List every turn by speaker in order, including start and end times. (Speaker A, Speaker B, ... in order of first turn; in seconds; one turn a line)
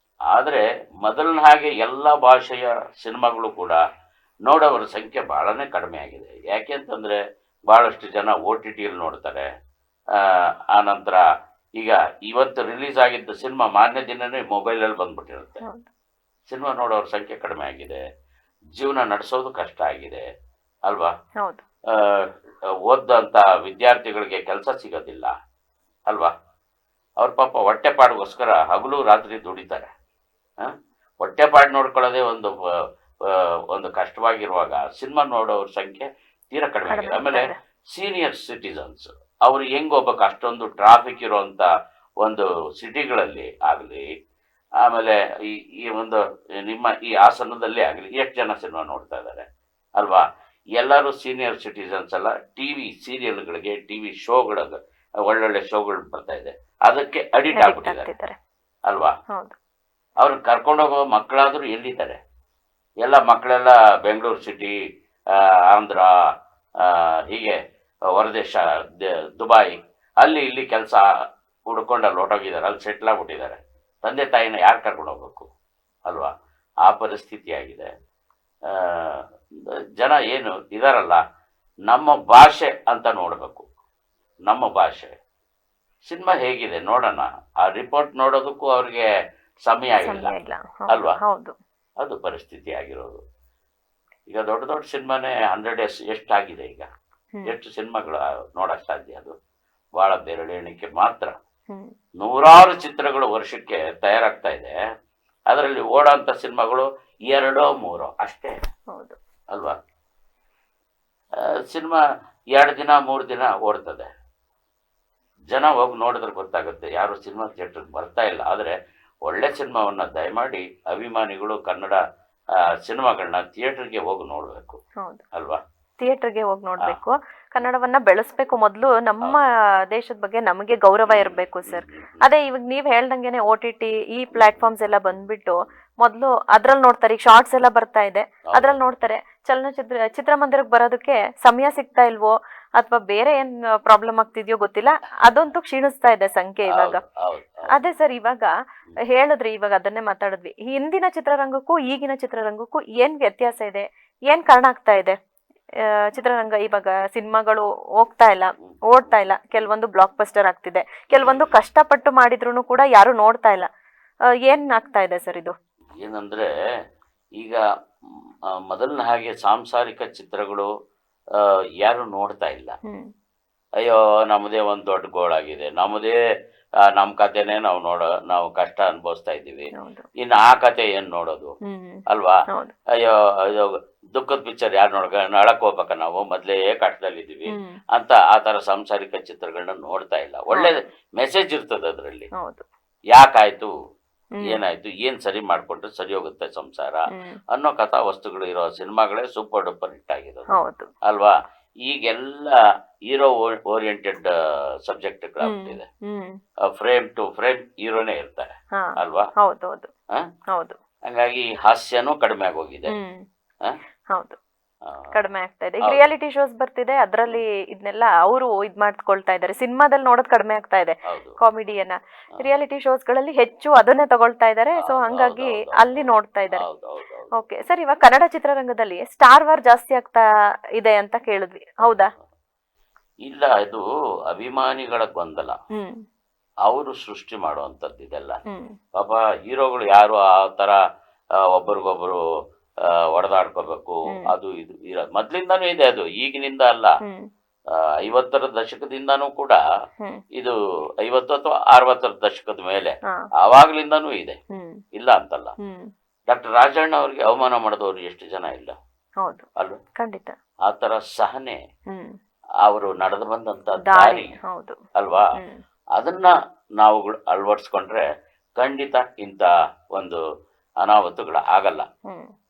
Speaker A: 0.3-3.8
Speaker A: 4.5-7.2
Speaker A: 7.7-9.5
Speaker A: 10.1-11.2
Speaker A: 11.8-15.6
Speaker B: 15.6-15.9
Speaker A: 16.5-18.0
Speaker A: 18.8-20.2
Speaker A: 21.9-22.3
Speaker A: 22.9-25.3
Speaker A: 27.2-29.9
Speaker A: 30.6-32.5
Speaker A: 33.2-41.7
Speaker B: 36.9-37.6
Speaker A: 42.2-44.0
Speaker A: 44.8-49.5
Speaker A: 50.0-50.2
Speaker A: 50.8-54.8
Speaker A: 55.3-58.1
Speaker B: 57.5-58.4
Speaker A: 58.9-59.1
Speaker A: 60.2-62.2
Speaker A: 63.0-64.7
Speaker A: 65.3-66.1
Speaker A: 66.8-67.6
Speaker A: 68.1-71.0
Speaker A: 71.7-75.5
Speaker A: 76.8-77.9
Speaker A: 78.7-79.2
Speaker A: 80.0-81.2
Speaker A: 81.9-83.7
Speaker A: 84.5-85.1
Speaker A: 86.1-89.0
Speaker A: 89.6-90.3
Speaker B: 90.0-91.5
Speaker A: 90.9-91.2
Speaker A: 92.0-93.2
Speaker A: 94.3-96.9
Speaker A: 97.5-99.3
Speaker A: 100.0-101.3
Speaker A: 102.2-104.8
Speaker A: 105.5-108.5
Speaker B: 108.9-109.2
Speaker A: 111.6-112.0
Speaker A: 112.5-114.1
Speaker A: 115.5-122.0
Speaker A: 122.8-124.8
Speaker A: 125.3-125.6
Speaker B: 126.0-147.0
Speaker A: 131.1-132.2
Speaker A: 134.3-135.2
Speaker A: 138.5-138.8
Speaker A: 146.7-147.7
Speaker B: 147.7-148.5
Speaker B: 149.1-155.2
Speaker B: 156.1-163.7
Speaker A: 158.6-159.7
Speaker A: 161.1-161.6
Speaker B: 164.5-165.5
Speaker A: 166.0-166.5
Speaker A: 168.7-170.7
Speaker A: 171.3-172.8
Speaker A: 173.8-176.2
Speaker A: 176.9-179.7
Speaker B: 179.8-180.1
Speaker A: 180.2-181.6
Speaker B: 181.6-182.8
Speaker A: 182.1-182.4
Speaker A: 183.0-192.3
Speaker B: 187.5-187.8
Speaker B: 192.4-192.7
Speaker A: 193.1-193.7
Speaker B: 194.3-194.6
Speaker A: 194.5-200.5
Speaker B: 200.5-200.9
Speaker A: 201.1-202.6
Speaker A: 203.1-204.3
Speaker A: 204.8-205.9
Speaker B: 205.4-206.4
Speaker A: 206.7-209.3
Speaker B: 208.8-209.9
Speaker B: 210.5-210.8
Speaker A: 211.1-212.9
Speaker B: 212.9-213.2
Speaker B: 214.1-214.4
Speaker B: 215.1-226.6
Speaker A: 215.8-216.1
Speaker A: 221.1-221.4
Speaker A: 224.8-227.4
Speaker B: 227.4-230.2
Speaker B: 230.8-232.1
Speaker A: 231.8-232.2
Speaker A: 233.2-235.6
Speaker B: 235.8-236.0
Speaker A: 236.7-238.4
Speaker B: 238.5-238.8
Speaker A: 239.0-240.8
Speaker A: 241.5-242.2
Speaker A: 243.1-246.9
Speaker A: 247.7-249.6
Speaker A: 250.3-254.4
Speaker B: 254.5-254.8
Speaker A: 254.9-255.6
Speaker B: 255.6-255.9
Speaker A: 256.3-258.8
Speaker B: 260.0-260.4
Speaker A: 260.7-261.6
Speaker A: 262.6-264.3
Speaker B: 263.8-264.8
Speaker A: 265.0-265.3
Speaker B: 265.4-265.6
Speaker A: 266.0-268.0
Speaker A: 268.6-270.2
Speaker A: 270.8-271.9
Speaker B: 272.1-272.3